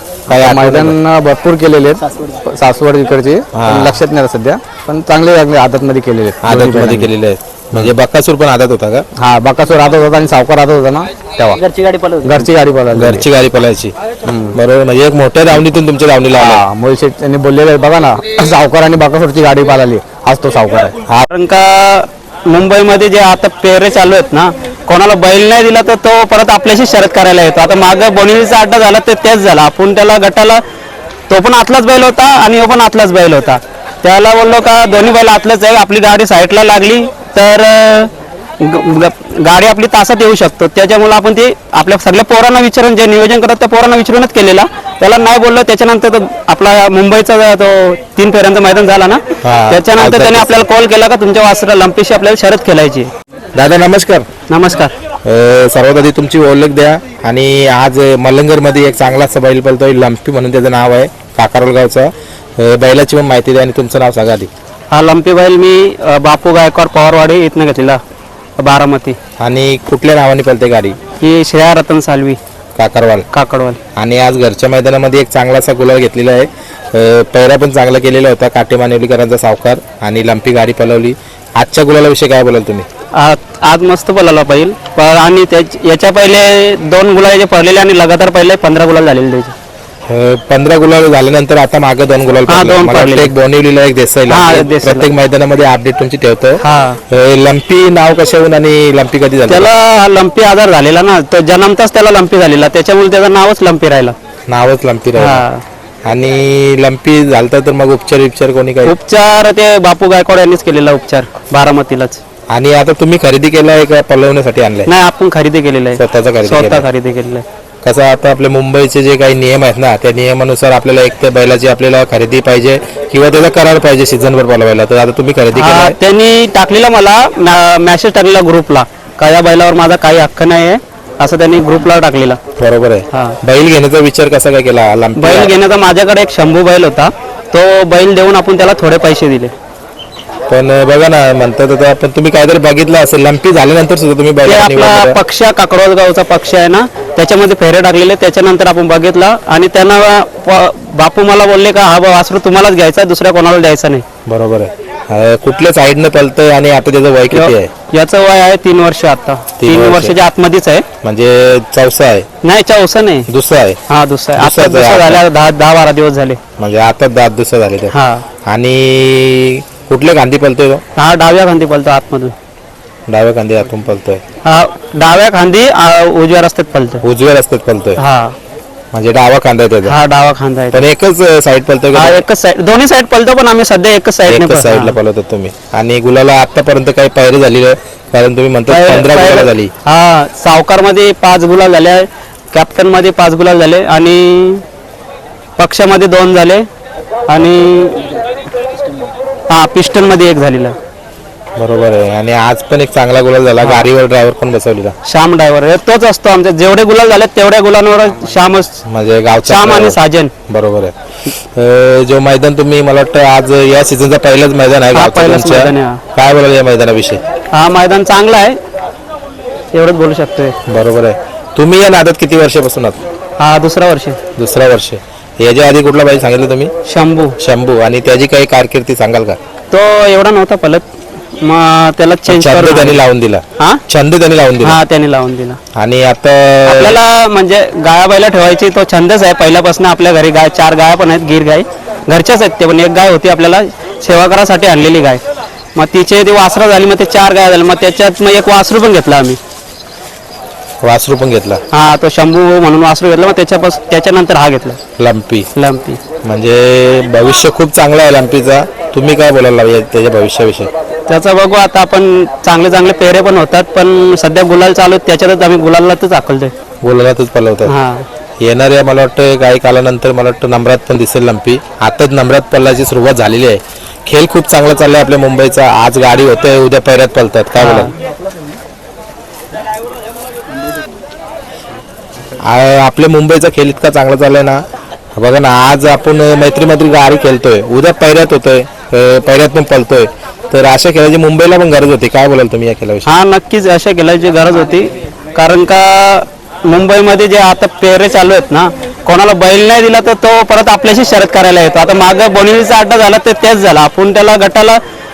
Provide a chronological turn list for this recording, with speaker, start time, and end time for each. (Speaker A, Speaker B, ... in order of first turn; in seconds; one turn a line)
Speaker A: 0.3-1.0
Speaker B: 0.3-7.1
Speaker A: 3.5-4.0
Speaker A: 6.4-9.0
Speaker B: 9.2-13.2
Speaker A: 12.9-13.9
Speaker B: 14.2-14.6
Speaker A: 14.5-16.6
Speaker B: 16.4-21.0
Speaker C: 21.3-30.6
Speaker C: 31.3-53.1
Speaker A: 49.4-50.6
Speaker A: 53.5-54.3
Speaker C: 54.5-54.9
Speaker A: 55.2-64.5
Speaker C: 64.9-68.0
Speaker C: 68.6-69.2
Speaker A: 69.4-71.0
Speaker C: 71.2-72.4
Speaker A: 72.8-73.3
Speaker C: 73.3-73.8
Speaker A: 73.9-82.9
Speaker C: 83.1-89.5
Speaker A: 90.1-99.7
Speaker C: 92.5-93.3
Speaker C: 94.3-95.1
Speaker C: 96.6-97.0
Speaker C: 99.5-104.2
Speaker A: 104.5-105.4
Speaker C: 105.2-105.6
Speaker A: 106.0-108.9
Speaker C: 108.8-112.2
Speaker A: 112.5-114.9
Speaker C: 114.8-117.4
Speaker A: 116.0-116.8
Speaker A: 117.8-126.0
Speaker C: 125.5-132.4
Speaker A: 132.6-135.5
Speaker C: 133.1-133.4
Speaker C: 135.2-139.5
Speaker A: 140.5-145.2
Speaker C: 144.4-154.0
Speaker A: 154.2-157.7
Speaker C: 157.3-160.8
Speaker A: 159.6-160.2
Speaker A: 161.0-162.2
Speaker C: 162.4-163.3
Speaker A: 163.3-163.8
Speaker C: 163.9-166.4
Speaker A: 164.4-165.2
Speaker A: 166.6-167.9
Speaker C: 167.9-168.2
Speaker A: 168.5-170.8
Speaker C: 170.9-172.3
Speaker A: 173.1-174.2
Speaker C: 174.4-177.0
Speaker A: 177.0-178.0
Speaker C: 178.0-178.3
Speaker A: 178.9-180.0
Speaker C: 179.8-180.8
Speaker A: 180.7-182.2
Speaker C: 181.9-184.9
Speaker A: 184.3-189.7
Speaker C: 188.7-194.6
Speaker C: 195.6-196.7
Speaker C: 197.3-198.1
Speaker C: 199.5-200.8
Speaker A: 201.6-204.9
Speaker C: 205.0-208.8
Speaker A: 208.8-210.9
Speaker C: 209.4-210.3
Speaker A: 211.5-217.2
Speaker C: 214.9-216.0
Speaker C: 217.5-218.6
Speaker C: 219.7-220.5
Speaker A: 220.7-223.0
Speaker C: 223.4-224.2
Speaker A: 224.3-226.7
Speaker C: 226.8-227.3
Speaker A: 227.4-229.4
Speaker C: 229.7-230.8
Speaker C: 231.4-233.0
Speaker A: 232.3-234.8
Speaker C: 234.6-235.6
Speaker A: 235.7-237.0
Speaker C: 236.7-245.2
Speaker C: 245.8-249.4
Speaker A: 250.8-251.6
Speaker C: 251.7-254.8
Speaker A: 255.0-255.5
Speaker C: 255.5-256.0
Speaker A: 256.2-260.7
Speaker C: 261.1-266.5
Speaker A: 266.8-267.7
Speaker C: 267.6-268.0
Speaker A: 268.4-277.9
Speaker C: 277.6-277.9
Speaker A: 282.4-284.6
Speaker A: 285.1-293.1
Speaker C: 293.0-304.8